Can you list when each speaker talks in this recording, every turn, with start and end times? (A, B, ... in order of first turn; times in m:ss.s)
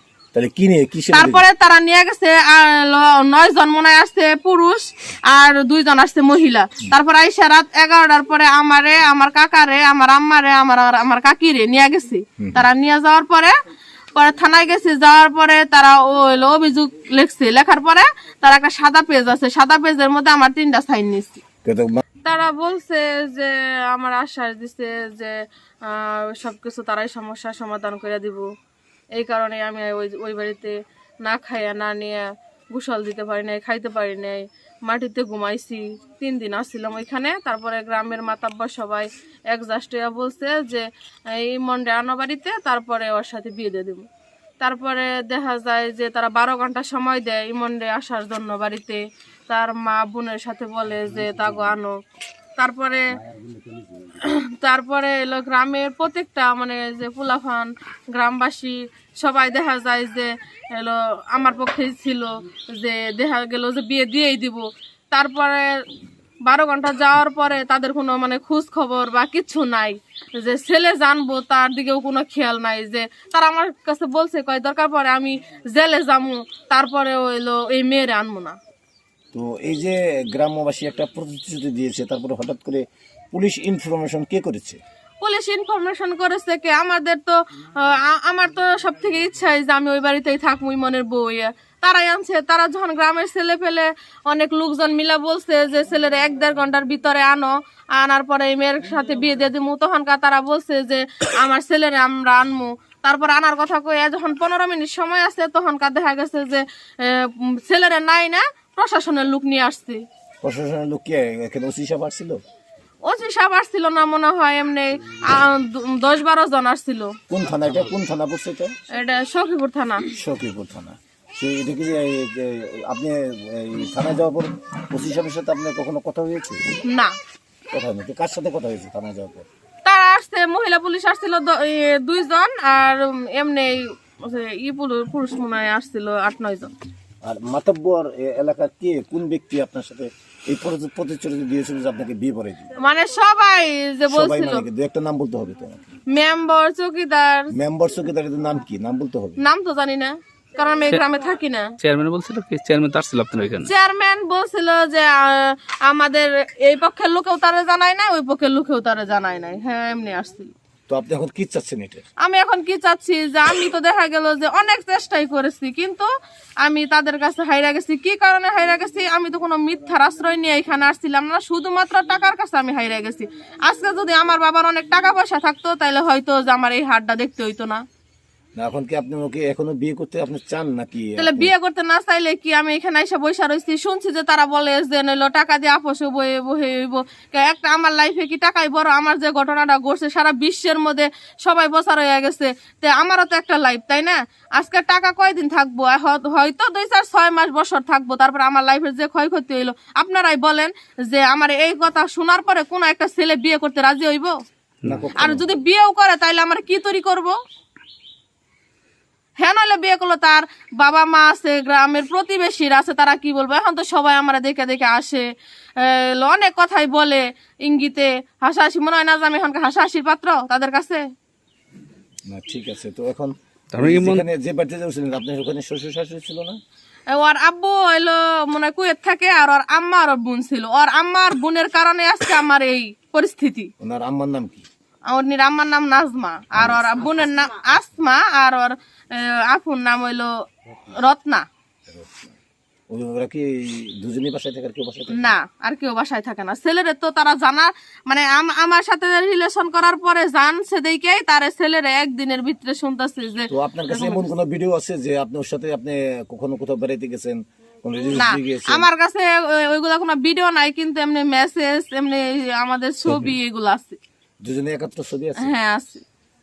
0:00.3-0:01.4 A
0:01.1-0:13.6 B
0:12.4-0:12.6 A
0:14.2-0:21.4 B
0:21.6-0:22.0 A
0:22.2-0:28.5 B
0:29.1-0:44.1 B
0:44.6-0:52.0 B
0:52.6-0:53.2 B
0:53.3-0:53.8 A
0:54.2-1:05.8 B
1:06.4-1:18.6 B
1:19.3-1:24.8 A
1:25.2-1:50.0 B
1:50.4-1:52.4 A
1:53.0-1:57.2 B
1:57.3-1:58.7 A
1:58.9-2:00.0 B
2:00.0-2:06.6 A
2:06.9-2:07.1 B
2:07.7-2:09.5 A
2:09.8-2:16.7 B
2:17.2-2:22.7 A
2:22.8-2:24.6 B
2:24.1-2:25.8 A
2:26.1-2:27.5 B
2:27.5-2:29.4 A
2:29.4-2:31.7 B
2:31.8-2:33.7 C
2:33.6-2:40.5 B
2:40.9-2:42.0 A
2:42.2-2:46.1 B
2:46.6-2:57.8 B
2:58.6-3:01.5 A
3:01.2-3:24.4 B
3:24.8-3:25.1 C
3:24.8-3:25.5 A
3:25.2-3:27.4 B
3:29.4-3:41.0 B
3:42.3-3:46.6 A
3:43.7-3:44.2 C
3:47.1-3:53.7 B
3:53.8-3:54.6 A
3:55.1-4:00.4 B
3:56.5-3:57.0 A
4:00.9-4:01.4 B
4:01.9-4:02.4 A
4:02.9-4:05.4 A
4:05.1-4:14.2 B
4:13.5-4:18.9 A
4:18.1-4:24.0 B
4:23.1-4:23.3 A
4:24.4-4:25.5 A
4:25.4-4:26.0 B